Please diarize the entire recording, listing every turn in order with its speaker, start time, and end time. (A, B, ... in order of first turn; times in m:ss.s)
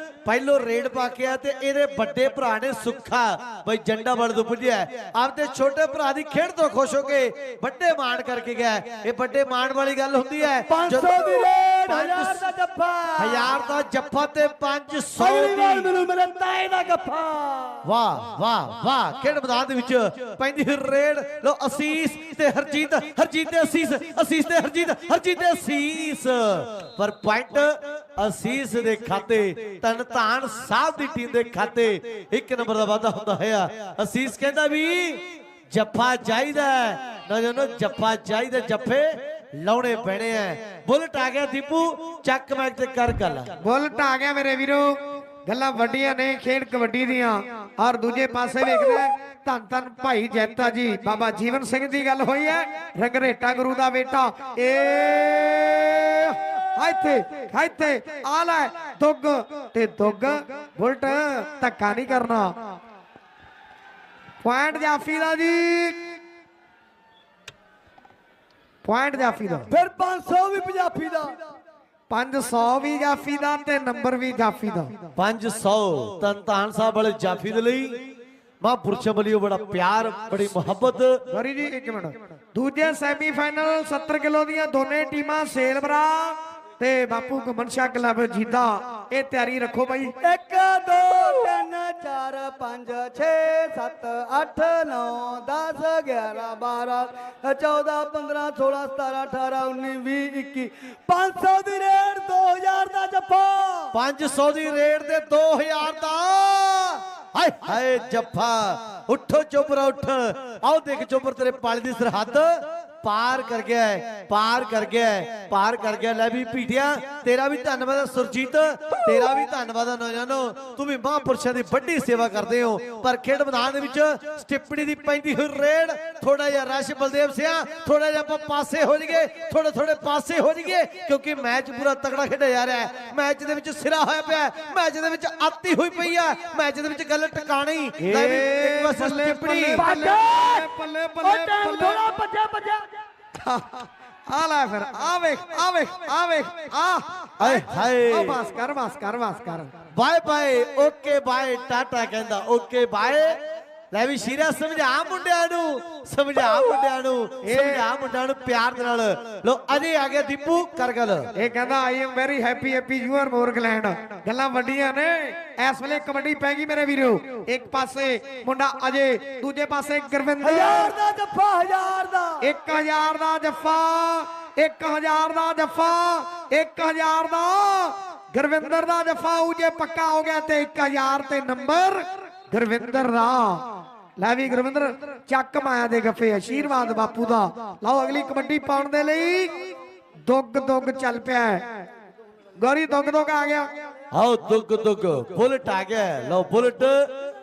0:00.2-0:12.4 A
0:10.7-0:13.6 B
0:13.2-0:15.9 A
0:15.2-0:17.8 B
0:17.8-0:43.5 A
0:43.6-1:02.5 C
1:04.4-1:06.1 C
1:08.8-1:09.7 C
1:09.7-1:11.4 B
1:12.1-1:15.0 C
1:15.2-1:18.0 A
1:18.6-1:21.2 A
1:21.3-1:30.1 C
1:30.2-1:43.9 B
1:43.9-2:19.8 A
2:18.0-2:22.0 C
2:19.8-2:20.7 B
2:21.2-2:22.9 B
2:23.4-2:29.7 C
2:27.4-2:28.4 A
2:30.0-2:33.4 A
2:33.9-2:41.3 A
2:37.4-2:37.8 C
2:41.3-2:50.9 C
2:50.4-2:52.4 B
2:52.4-3:09.7 C
3:10.2-3:11.7 C
3:12.6-3:13.7 C
3:14.1-3:17.1 A